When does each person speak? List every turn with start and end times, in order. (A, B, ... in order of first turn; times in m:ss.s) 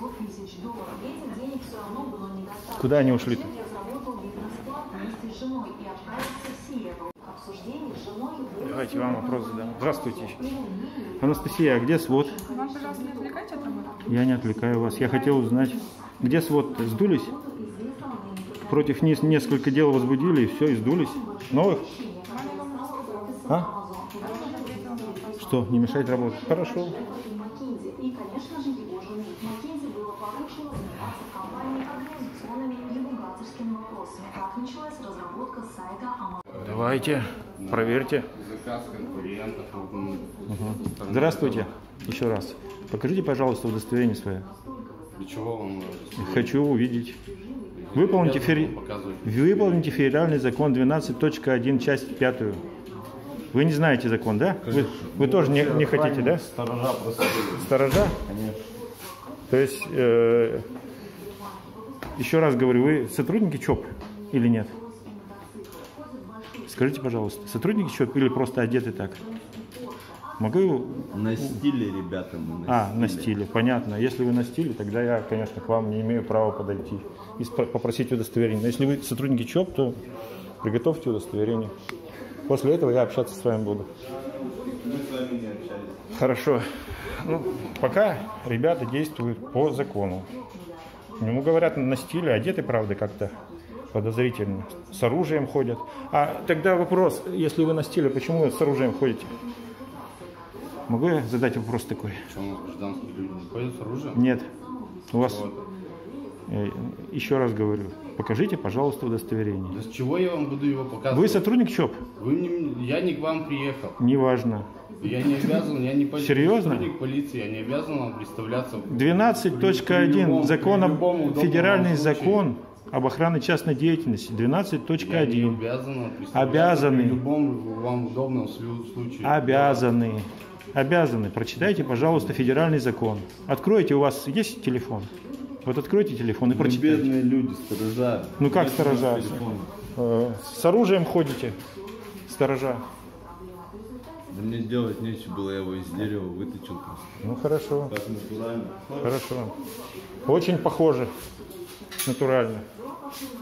0:02.7-0:03.5 A
0:08.6-0:10.4 A
0:11.2-0:12.4 A
0:12.4-0:14.1 B
0:14.0-0:17.3 A
0:18.6-0:21.9 A
0:22.2-0:23.3 B
0:23.5-0:23.7 A
0:24.2-0:26.2 B
0:25.4-0:27.0 A
0:36.5-0:38.3 A
0:37.6-0:41.7 C
0:40.5-0:44.5 A
0:45.2-0:46.5 C
0:46.2-0:47.2 A
0:47.7-0:49.9 C
0:47.9-0:52.6 A
0:53.5-0:56.4 A
0:54.6-0:58.6 D
0:57.6-0:58.2 A
0:59.5-1:00.7 A
1:02.2-1:04.8 A
1:06.7-1:09.2 A
1:10.4-1:11.5 A
1:11.1-1:13.3 D
1:12.7-1:20.0 A
1:20.6-1:21.7 A
1:22.5-1:23.9 A
1:24.5-1:26.0 D
1:26.1-1:30.3 A
1:31.2-1:33.4 A
1:33.9-1:39.3 A
1:40.9-1:42.2 A
1:42.3-1:44.2 C
1:44.1-1:44.5 A
1:45.1-1:45.5 A
1:45.1-1:45.7 C
1:46.5-1:49.8 A
1:49.7-1:51.4 C
1:51.1-1:52.0 A
1:52.2-1:54.0 C
1:54.0-1:54.7 A
1:55.0-2:02.4 C
1:56.1-1:56.9 A
1:58.9-2:05.6 A
2:05.0-2:09.8 C
2:06.3-2:07.2 A
2:09.2-2:15.1 A
2:15.6-2:17.1 A
2:16.5-2:19.7 D
2:18.4-2:19.4 A
2:20.0-2:21.6 A
2:22.3-2:22.8 A
2:24.3-2:27.0 D
2:27.2-2:27.9 A
2:27.9-2:29.2 D
2:29.0-2:29.5 A
2:30.2-2:31.1 A
2:32.0-2:32.6 A